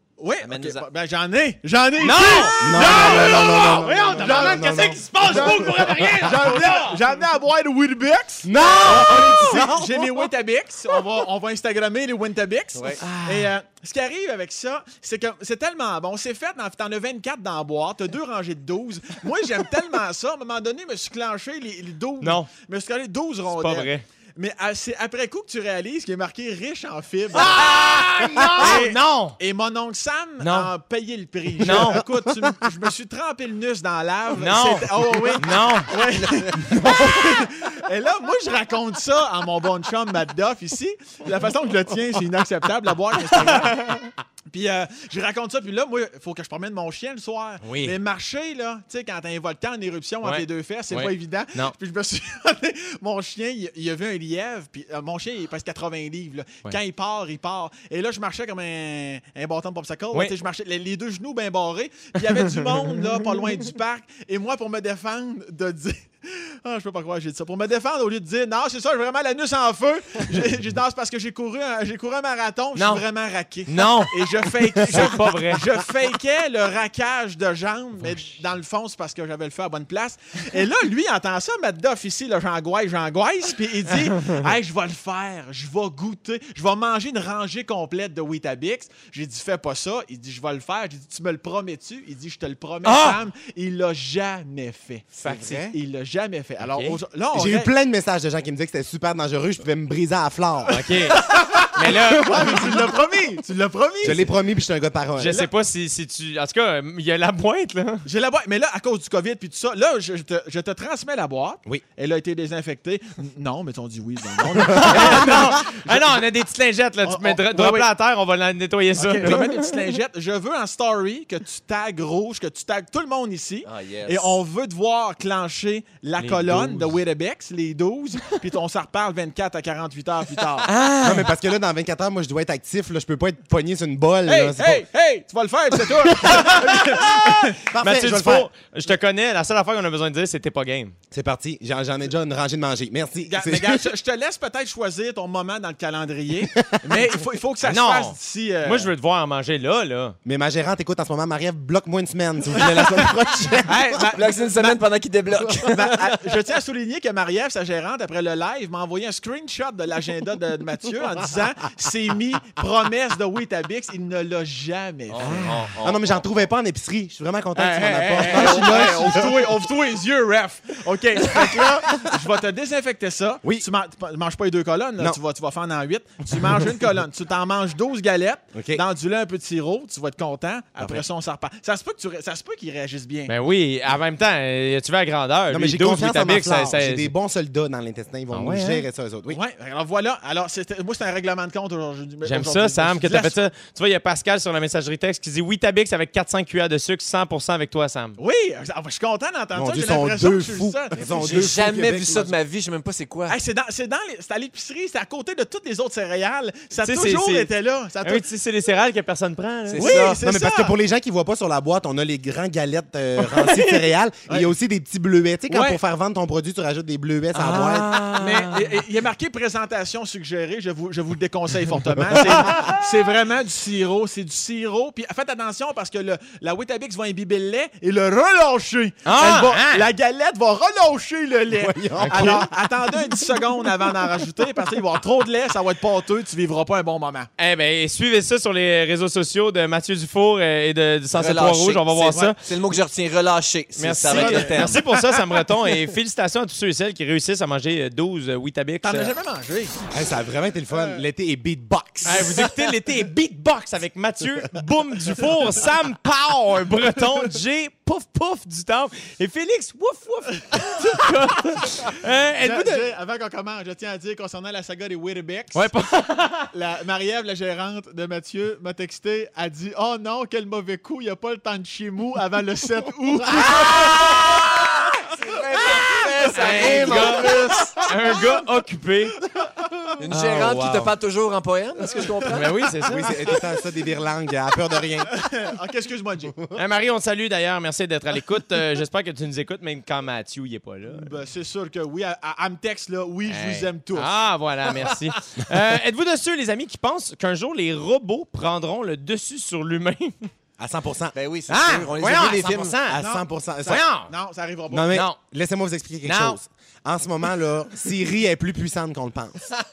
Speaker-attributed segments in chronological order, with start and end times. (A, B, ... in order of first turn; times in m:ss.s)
0:00.2-0:03.5 A
0:00.4-0:00.8 B
0:02.0-0:07.0 C
0:02.6-0:06.3 D
0:04.1-0:27.8 A
0:08.4-0:10.3 D
0:08.9-0:09.4 C
0:13.0-0:13.5 C
0:22.2-0:22.5 C
0:23.5-0:24.0 C
0:27.3-0:29.4 C
0:28.1-0:28.8 D
0:28.5-1:37.7 A
0:30.4-0:30.7 C
0:31.6-0:32.0 C
0:31.6-0:32.6 D
0:34.4-0:35.9 C
0:36.6-0:37.3 C
0:43.3-0:44.1 C
0:47.6-0:48.0 C
0:50.2-0:51.7 C
1:12.7-1:13.0 C
1:13.7-1:15.6 C
1:32.8-1:33.2 C
1:35.2-1:35.6 C
1:35.2-1:35.6 B
1:36.6-1:37.0 C
1:37.3-1:40.8 D
1:40.7-1:42.6 C
1:40.8-1:44.3 A
1:42.3-1:42.8 D
1:44.0-1:45.4 D
1:45.2-1:48.0 C
1:45.2-1:45.5 A
1:48.0-1:56.2 A
1:54.7-1:59.7 C
1:54.8-1:55.1 D
1:57.0-1:57.9 A
1:59.0-2:10.7 A
2:03.6-2:04.4 B
2:06.2-2:06.9 C
2:10.6-2:11.3 C
2:11.0-2:14.8 D
2:14.3-2:17.6 A
2:16.2-2:21.0 C
2:17.6-2:18.5 D
2:21.1-2:23.9 D
2:23.2-2:28.9 A
2:26.5-2:27.1 D
2:27.6-2:30.2 C
2:30.2-2:34.1 D
2:33.6-2:34.8 A
2:34.1-2:36.2 B
2:35.6-2:45.4 A
2:45.1-2:46.2 B
2:45.2-2:45.8 C
2:45.2-2:49.6 D
2:47.6-3:03.3 A
2:48.2-2:48.7 C
2:51.4-2:51.6 D
2:58.5-2:58.8 D
3:00.8-3:01.0 D
3:03.3-3:07.1 C
3:05.5-3:09.4 D
3:08.3-3:08.8 C
3:09.3-3:13.4 A
3:12.2-3:18.2 C
3:18.2-3:21.5 A
3:19.5-3:22.3 D
3:21.0-3:23.4 B
3:23.3-3:28.2 A
3:26.8-3:27.5 C
3:28.0-3:30.0 C
3:29.7-3:30.2 B
3:29.8-3:30.7 A
3:30.2-3:38.1 D
3:33.2-3:33.9 C
3:35.5-3:35.8 A
3:37.3-3:38.8 C
3:38.2-3:57.3 A
3:42.2-3:42.6 C
3:49.0-3:49.9 C
3:51.5-3:52.5 D
3:52.0-3:52.5 C
3:57.4-4:02.4 C
4:01.1-4:04.8 B
4:03.8-4:09.1 C
4:04.1-4:05.4 A
4:08.8-4:09.8 A
4:09.9-4:12.5 D
4:12.0-4:22.9 C
4:12.1-4:12.5 A
4:22.4-4:25.7 A
4:25.5-4:26.5 C
4:26.5-4:34.4 A
4:33.4-4:34.5 C
4:33.5-4:37.8 B
4:35.3-4:37.9 A
4:36.3-4:39.2 C
4:39.4-4:39.6 A
4:40.0-4:42.6 B
4:40.1-4:40.9 C
4:42.3-4:43.3 C
4:42.9-4:45.1 D
4:42.9-4:43.4 A
4:45.1-4:46.4 A
4:46.5-4:51.1 C
4:50.9-4:54.1 A
4:53.2-5:00.3 C
4:54.7-4:55.1 A
5:00.6-5:01.1 D
5:01.1-5:02.8 B
5:01.5-5:03.0 C
5:02.9-5:03.8 D
5:02.9-5:05.0 A
5:03.6-5:04.1 C
5:04.7-5:09.5 D
5:04.9-5:05.2 C
5:06.0-5:06.4 C